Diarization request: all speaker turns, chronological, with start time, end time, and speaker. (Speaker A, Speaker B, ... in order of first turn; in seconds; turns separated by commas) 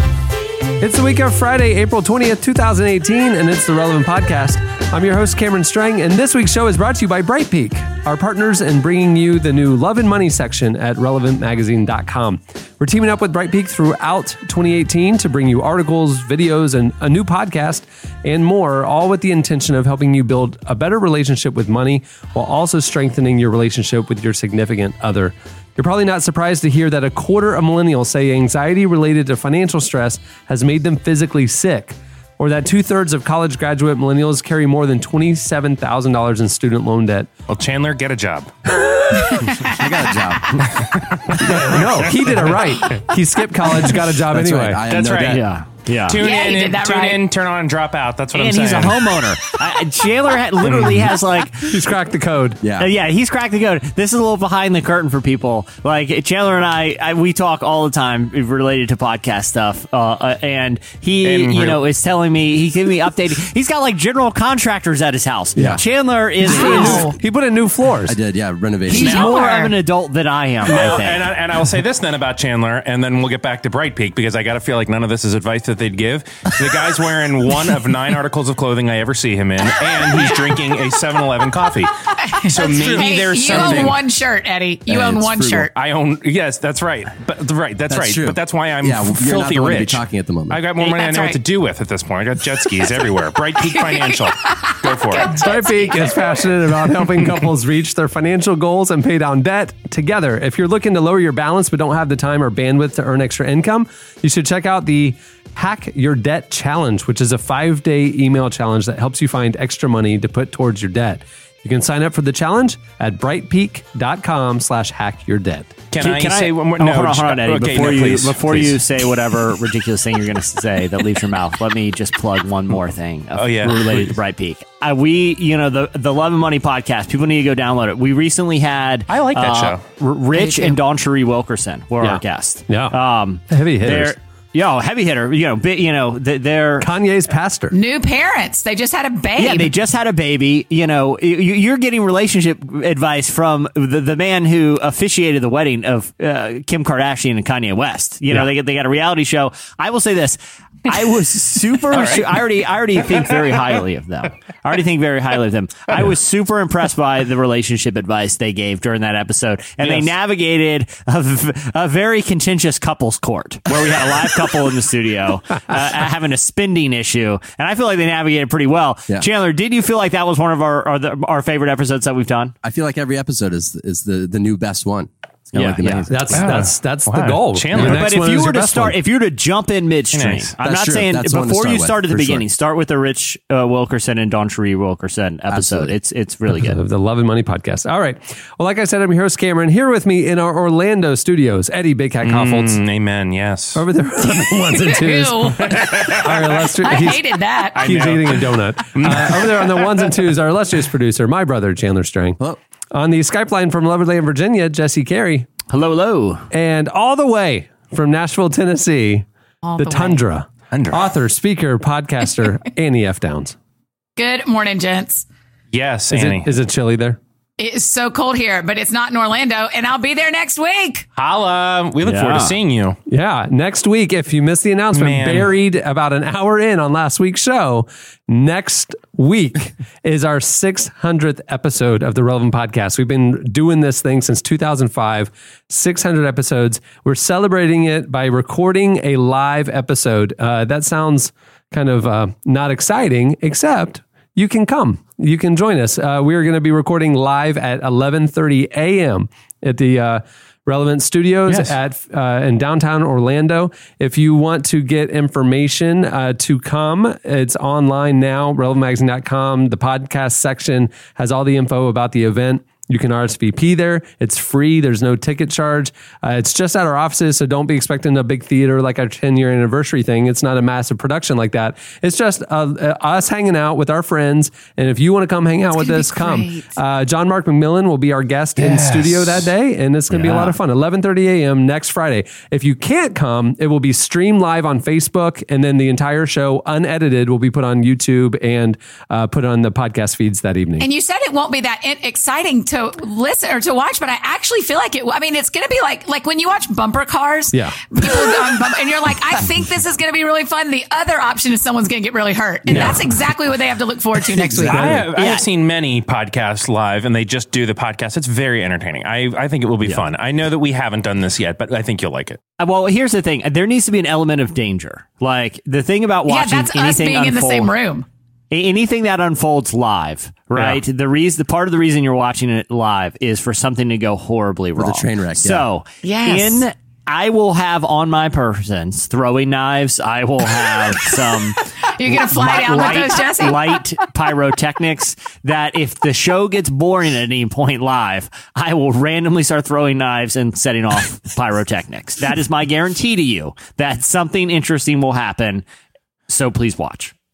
Speaker A: 0.8-37.3, Speaker B: 37.5-38.5, Speaker A: 38.8-39.4, Speaker C: 39.3-39.6, Speaker D: 39.6-40.7, Speaker B: 40.7-42.6, Speaker A: 41.4-44.8, Speaker D: 44.3-45.5, Speaker B: 44.9-45.4, Speaker E: 45.3-46.2, Speaker B: 46.1-49.1, Speaker C: 46.2-47.2, Speaker E: 48.3-51.6, Speaker B: 50.6-51.1, Speaker A: 51.6-52.6, Speaker D: 52.6-52.9, Speaker E: 52.8-67.0, Speaker B: 61.2-61.8, Speaker A: 65.6-65.8, Speaker D: 65.6-65.8, Speaker C: 66.4-67.2, Speaker D: 66.5-67.1, Speaker A: 66.6-68.2, Speaker D: 68.0-69.3, Speaker E: 68.9-71.3, Speaker C: 68.9-69.7, Speaker B: 69.0-69.5, Speaker B: 70.7-84.0, Speaker C: 82.2-85.7, Speaker A: 82.5-84.0, Speaker D: 84.9-85.7, Speaker B: 85.7-95.4, Speaker D: 87.9-90.6, Speaker C: 90.8-91.4, Speaker C: 93.6-96.3, Speaker A: 95.3-115.7, Speaker B: 115.9-118.8, Speaker E: 116.0-136.9, Speaker B: 123.4-124.2, Speaker B: 129.1-129.8, Speaker C: 130.3-130.8, Speaker A: 132.0-133.0, Speaker A: 133.5-134.2, Speaker A: 136.8-137.8, Speaker C: 137.7-139.7, Speaker E: 139.4-172.5, Speaker B: 151.9-152.4, Speaker B: 159.8-160.1, Speaker D: 172.6-176.5, Speaker E: 175.6-176.1, Speaker A: 176.1-179.0, Speaker B: 176.3-178.1, Speaker E: 177.8-186.8, Speaker B: 180.1-180.5, Speaker D: 180.6-182.4, Speaker D: 185.5-185.9, Speaker A: 186.5-192.8, Speaker B: 192.2-193.8, Speaker A: 193.8-202.4, Speaker C: 194.7-197.8, Speaker B: 195.6-196.6, Speaker B: 197.8-200.0, Speaker A: 202.9-205.5, Speaker E: 205.7-206.5, Speaker A: 206.5-209.3, Speaker C: 209.6-210.2, Speaker A: 209.8-213.6, Speaker B: 210.7-211.1, Speaker C: 214.2-215.2, Speaker B: 215.7-216.5, Speaker A: 216.1-217.2, Speaker C: 217.6-221.1, Speaker B: 221.2-223.0, Speaker E: 222.1-222.5, Speaker A: 223.1-290.9, Speaker B: 224.9-225.5, Speaker C: 275.8-276.7, Speaker B: 278.6-279.4, Speaker E: 280.1-280.5, Speaker C: 290.8-304.8, Speaker A: 297.5-297.8, Speaker A: 302.7-303.0, Speaker A: 304.6-305.1, Speaker B: 304.7-312.4, Speaker E: 305.1-305.4, Speaker E: 312.6-317.8, Speaker C: 316.3-318.1, Speaker E: 318.5-345.6, Speaker B: 320.5-320.8, Speaker D: 324.8-325.7, Speaker C: 326.0-326.6, Speaker C: 331.9-333.8, Speaker E: 346.3-347.1